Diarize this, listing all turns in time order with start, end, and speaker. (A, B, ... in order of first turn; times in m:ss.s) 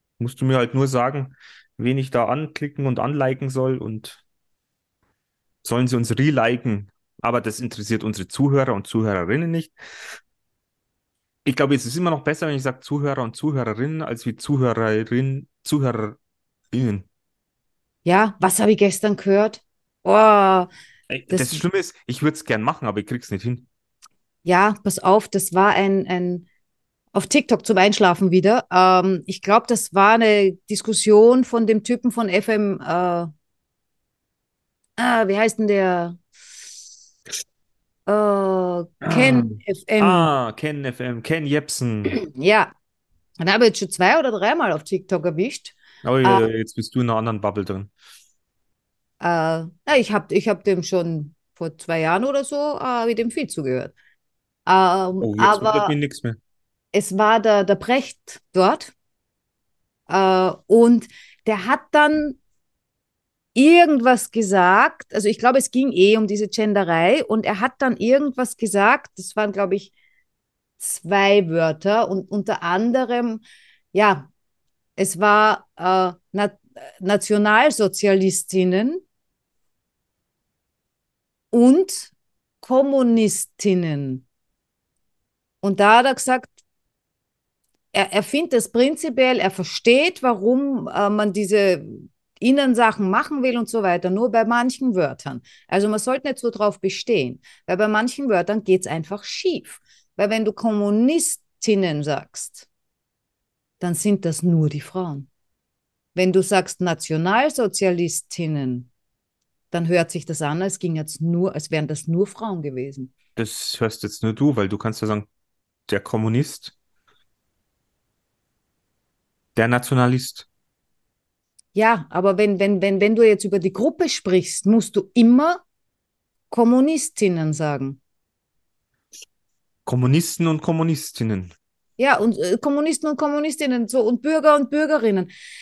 0:00.2-0:04.2 A
0:05.6-0:09.8 A
0:11.4-0:16.2 A
0:16.7-0:17.0 A
0:18.0-0:20.7 B
0:21.1-0:23.6 A
0:21.3-0:21.6 B
0:24.4-0:26.4 B
0:27.1-0:33.3 B
0:35.0-0:36.2 B
0:38.1-0:40.3 B
0:39.1-0:42.2 A
0:42.2-0:42.7 B
0:43.4-0:46.5 B
0:46.0-0:47.9 A
0:49.2-0:53.9 B
0:54.6-0:56.0 B
0:55.2-0:56.4 A
0:56.9-0:58.9 B
1:00.1-1:02.4 B
1:03.5-1:09.9 B
1:10.8-1:14.3 B
1:15.0-1:19.0 B
1:21.5-1:24.2 B
1:25.6-1:26.5 B
1:27.9-1:42.6 B
1:43.8-1:45.3 B
1:46.1-1:48.9 B
1:49.7-1:53.1 B
1:53.4-1:55.3 A
1:55.9-1:56.7 A
1:59.5-2:00.4 A
2:01.7-2:05.6 B
2:06.5-2:08.0 B
2:09.8-2:11.5 A
2:12.0-2:15.3 B